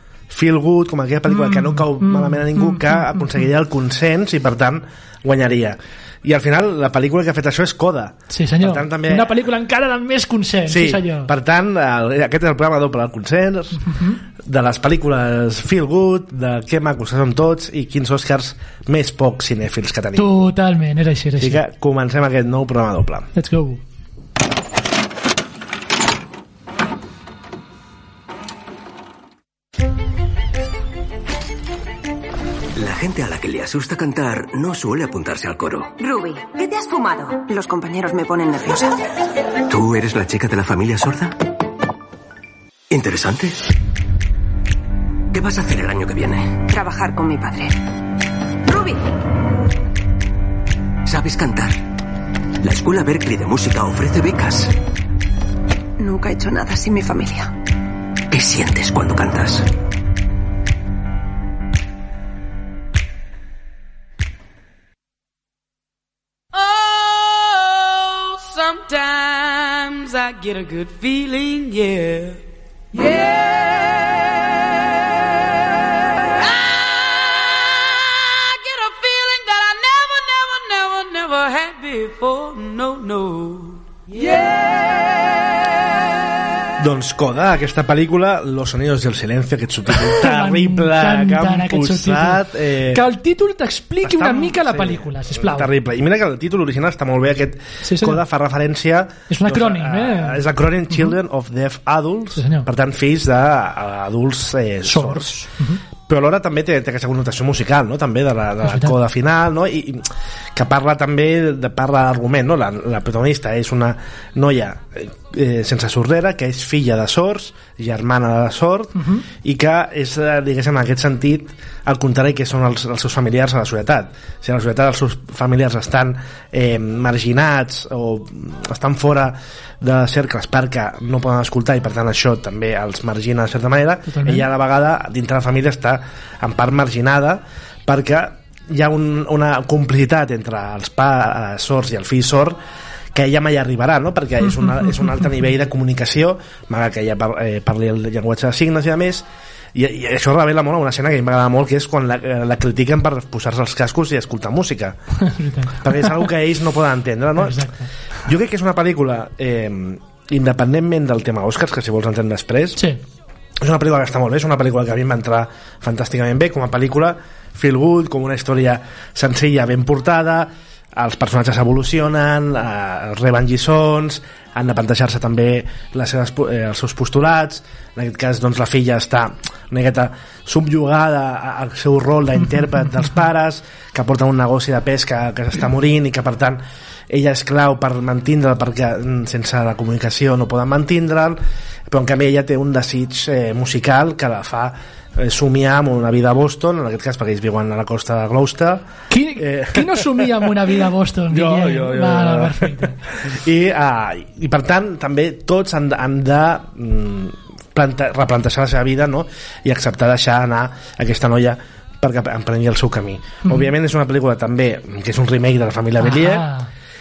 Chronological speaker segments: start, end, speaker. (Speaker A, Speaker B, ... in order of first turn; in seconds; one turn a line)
Speaker A: 0.3-9.3
Speaker B: 1.3-3.4
Speaker B: 8.3-11.3
Speaker A: 10.7-20.3
Speaker B: 13.8-14.2
Speaker B: 20.1-21.6
Speaker A: 21.4-23.3
Speaker B: 23.3-23.8
Speaker C: 32.7-35.9
Speaker D: 36.0-38.9
Speaker C: 39.7-41.4
Speaker C: 42.9-43.6
Speaker C: 45.3-46.6
Speaker D: 46.7-47.7
Speaker D: 48.7-49.0
Speaker C: 51.0-51.8
Speaker C: 52.6-54.7
Speaker D: 56.0-57.5
Speaker C: 58.3-59.6
Speaker E: 66.5-72.4
Speaker E: 72.9-74.1
Speaker E: 76.3-85.2
Speaker A: 86.8-93.0
Speaker B: 89.9-95.7
Speaker A: 94.0-105.4
Speaker B: 97.8-98.2
Speaker B: 99.3-100.4
Speaker B: 102.3-102.7
Speaker B: 104.8-105.8
Speaker A: 106.1-142.6
Speaker B: 108.6-108.9
Speaker B: 119.0-119.2
Speaker B: 134.1-134.5
Speaker A: 143.1-155.0
Speaker B: 144.4-145.4
Speaker B: 155.2-156.3
Speaker A: 155.8-157.7
Speaker B: 157.4-157.9
Speaker A: 158.2-162.8
Speaker A: 163.6-200.6
Speaker B: 182.4-183.2
Speaker B: 199.1-203.0
Speaker A: 201.3-216.5
Speaker B: 213.4-213.7
Speaker B: 216.0-216.7